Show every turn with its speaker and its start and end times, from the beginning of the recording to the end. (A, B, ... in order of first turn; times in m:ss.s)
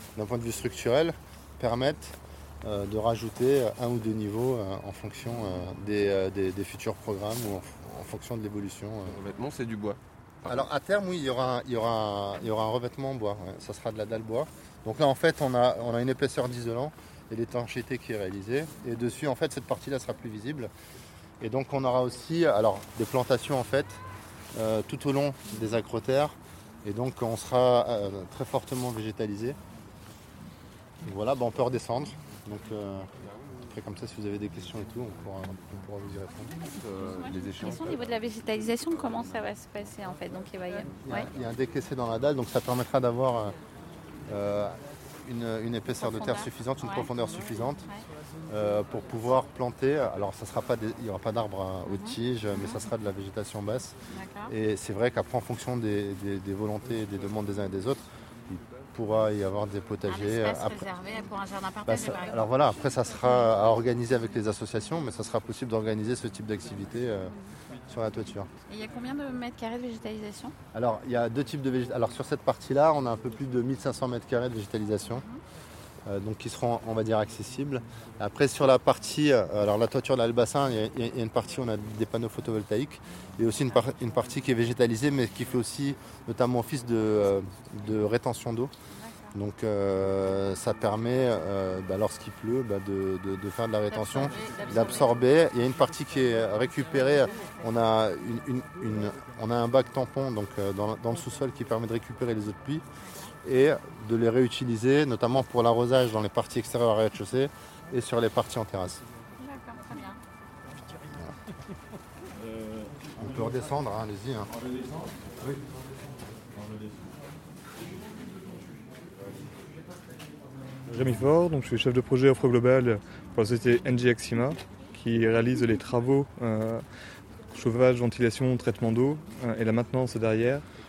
0:00.2-0:09.2 A
0:09.1-0:10.6 B
0:10.4-0:20.7 A
0:21.4-0:24.0 A
0:24.5-0:29.6 A
0:31.0-0:33.1 A
0:33.6-0:36.5 A
0:36.7-0:37.9 B
0:36.8-0:41.3 C
0:41.0-0:43.5 A
0:44.3-0:47.9 A
0:46.0-0:47.1 C
0:48.5-0:54.0 A
0:51.8-0:52.8 C
0:54.1-0:54.5 C
0:54.5-1:00.9 A
1:00.0-1:02.4 C
1:01.8-1:07.3 A
1:07.9-1:08.5 A
1:08.7-1:10.5 C
1:10.7-1:15.2 A
1:16.0-1:28.7 A
1:28.9-1:29.3 C
1:29.3-1:42.8 A
1:33.9-1:35.3 C
1:43.0-1:43.3 C
1:43.4-1:49.0 A
1:49.4-1:50.2 C
1:53.2-1:54.5 A
2:00.9-2:06.8 D
2:07.5-2:10.6 D